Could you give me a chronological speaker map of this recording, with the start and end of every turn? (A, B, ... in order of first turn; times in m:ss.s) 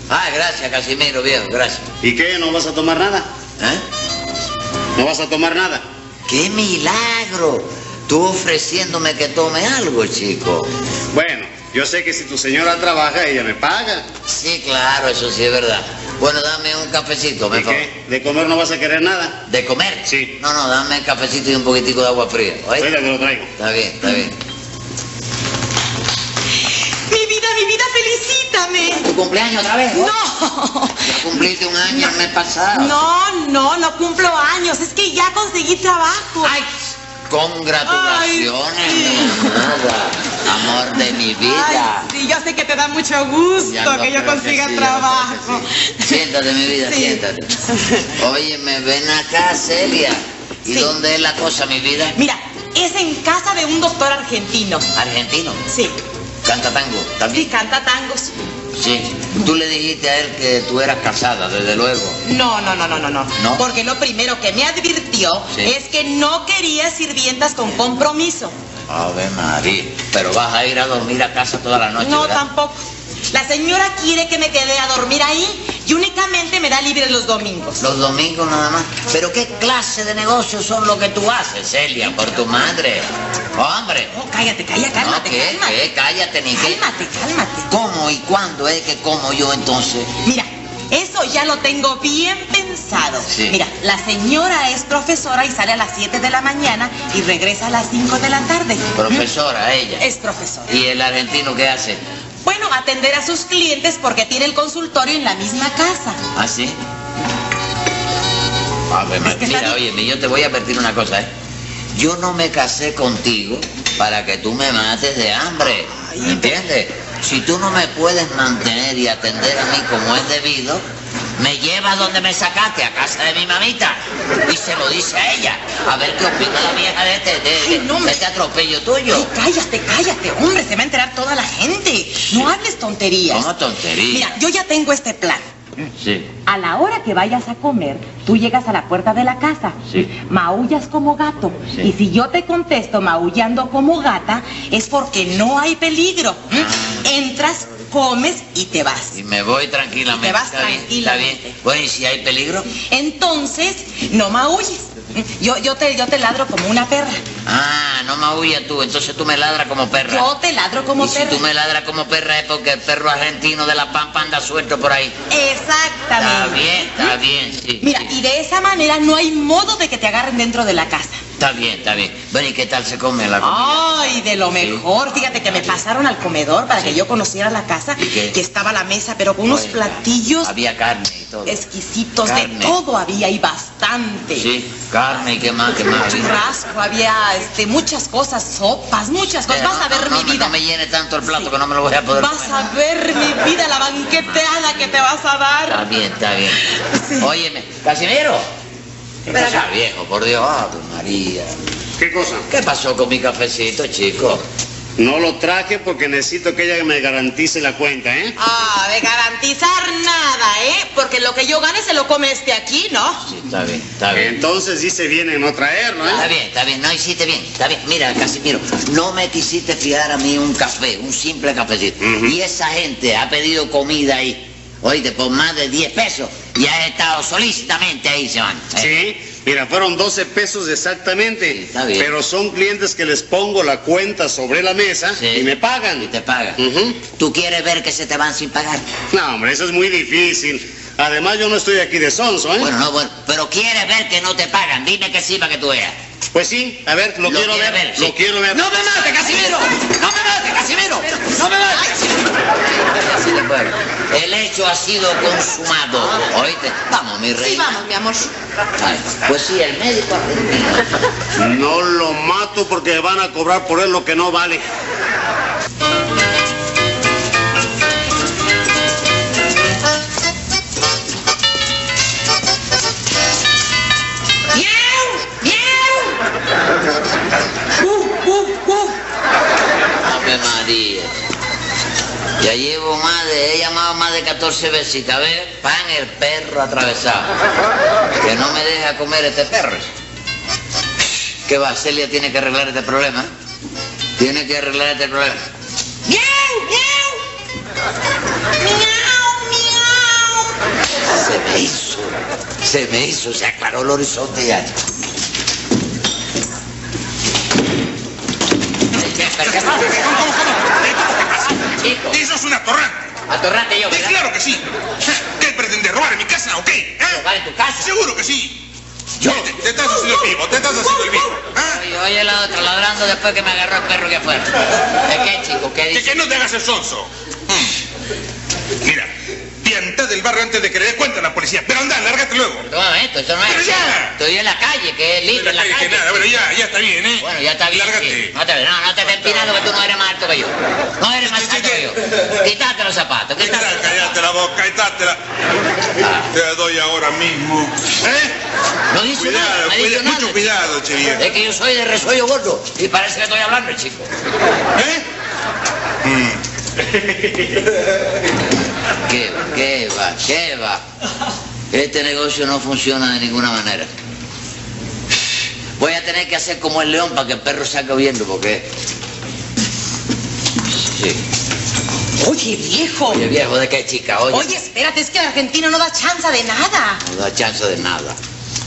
0:00.1-0:01.9 A
0:02.0-0:03.3 B
0:03.6-0:03.8 A
0:05.0-0:05.8 B
0:06.3-0:10.7 A
0:11.1-0:14.0 B
0:14.3-0:17.9 A
0:17.5-0:19.4 B
0:19.5-0:22.9 A
0:20.0-0:20.4 B
0:22.8-0:23.5 B
0:23.6-0:24.4 A
0:27.1-0:29.1 C
0:28.9-0:30.1 A
0:29.9-0:31.2 C
0:31.0-0:33.0 A
0:32.7-0:36.6 C
0:36.4-0:42.1 A
0:37.8-0:39.7 C
0:41.4-0:46.2 C
0:43.6-0:47.5 A
0:46.8-0:47.2 C
0:48.1-0:52.2 A
0:50.7-0:51.0 C
0:52.2-0:54.9 C
0:55.0-0:55.6 A
0:55.7-0:56.0 C
0:56.4-0:57.5 A
0:57.3-0:58.3 C
0:58.7-1:02.2 A
1:02.2-1:08.5 C
1:03.4-1:03.6 A
1:08.9-1:12.4 A
1:12.0-1:17.9 C
1:17.8-1:24.1 A
1:22.0-1:22.4 C
1:24.1-1:25.9 C
1:25.0-1:26.8 A
1:26.6-1:27.7 C
1:27.7-1:30.1 A
1:30.2-1:39.2 C
1:33.3-1:33.6 A
1:38.9-1:40.1 A
1:40.0-1:40.7 C
1:40.7-1:42.0 A
1:42.4-1:46.2 C
1:46.3-1:46.8 A
1:48.9-1:51.3 A
1:49.2-1:49.8 C
1:51.9-2:00.8 A
1:55.9-1:56.6 C
2:01.4-2:09.3 A
2:07.6-2:08.2 C
2:09.1-2:13.5 C
2:13.3-2:14.4 A
2:14.1-2:15.5 C
2:15.9-2:16.3 A
2:16.4-2:29.2 C
2:26.5-2:27.0 A
2:29.1-2:32.7 A
2:30.1-2:31.6 C
2:32.9-2:37.2 C
2:37.4-2:40.3 A
2:40.0-2:41.4 C
2:41.0-2:45.2 A
2:45.3-2:47.1 C
2:46.2-2:48.1 A
2:47.8-2:51.2 C
2:51.4-2:55.8 A
2:53.4-3:00.5 C
2:56.8-2:57.0 A
2:58.0-2:58.4 A
2:59.4-3:01.6 A
3:01.4-3:04.5 C
3:02.2-3:02.8 A
3:04.3-3:06.5 A
3:05.8-3:10.5 C
3:09.5-3:12.7 A
3:12.1-3:15.8 C
3:14.1-3:14.6 A
3:15.7-3:16.6 A
3:16.7-3:17.2 C
3:17.1-3:18.5 A
3:19.3-3:21.5 A
3:19.3-3:19.6 C
3:22.0-3:22.5 B
3:22.5-3:24.4 A
3:25.0-3:28.3 B
3:28.4-3:33.3 C
3:33.2-3:34.4 A
3:34.1-3:36.2 B
3:36.1-3:48.9 A
3:42.0-3:42.3 B
3:48.7-3:57.0 B
3:51.4-3:52.1 A
3:55.1-3:58.9 A
3:59.1-4:02.7 B
4:02.6-4:06.0 A
4:06.3-4:08.7 B
4:07.2-4:17.8 A
4:17.4-4:18.3 C
4:18.8-4:20.9 A
4:21.4-4:24.6 B
4:34.5-4:36.2 C
4:37.8-4:39.0 C
4:40.0-4:41.2 A
4:42.4-4:47.3 A
4:48.2-4:49.9 A
4:51.4-4:53.3 A
4:54.2-4:55.5 A
4:56.1-4:57.2 C
4:58.6-5:00.5 C
5:01.0-5:04.8 A
5:08.9-5:10.3 A
5:09.4-5:13.1 D
5:11.6-5:12.2 A
5:13.3-5:14.2 A
5:13.9-5:17.2 D
5:17.0-5:17.9 A
5:17.8-5:18.6 D
5:19.2-5:19.7 A
5:19.2-5:21.8 D
5:21.5-5:26.3 A
5:25.9-5:27.1 D
5:28.8-5:29.1 D
5:29.6-5:32.6 D
5:32.6-5:36.4 A
5:33.4-5:34.2 D
5:35.3-5:38.3 D
5:37.2-5:44.2 A
5:41.2-5:41.9 D
5:43.4-5:45.2 D
5:46.0-5:46.3 A
5:46.3-5:48.4 D
5:48.9-5:50.6 A
5:49.1-5:51.2 D
5:51.2-5:54.1 A
5:54.8-5:55.0 D
5:56.0-5:56.4 D
5:59.0-6:00.8 A
6:01.7-6:03.9 A
6:05.8-6:08.7 A
6:10.7-6:11.2 A
6:12.2-6:13.2 C
6:13.1-6:14.6 A
6:14.3-6:17.0 C
6:17.0-6:18.2 A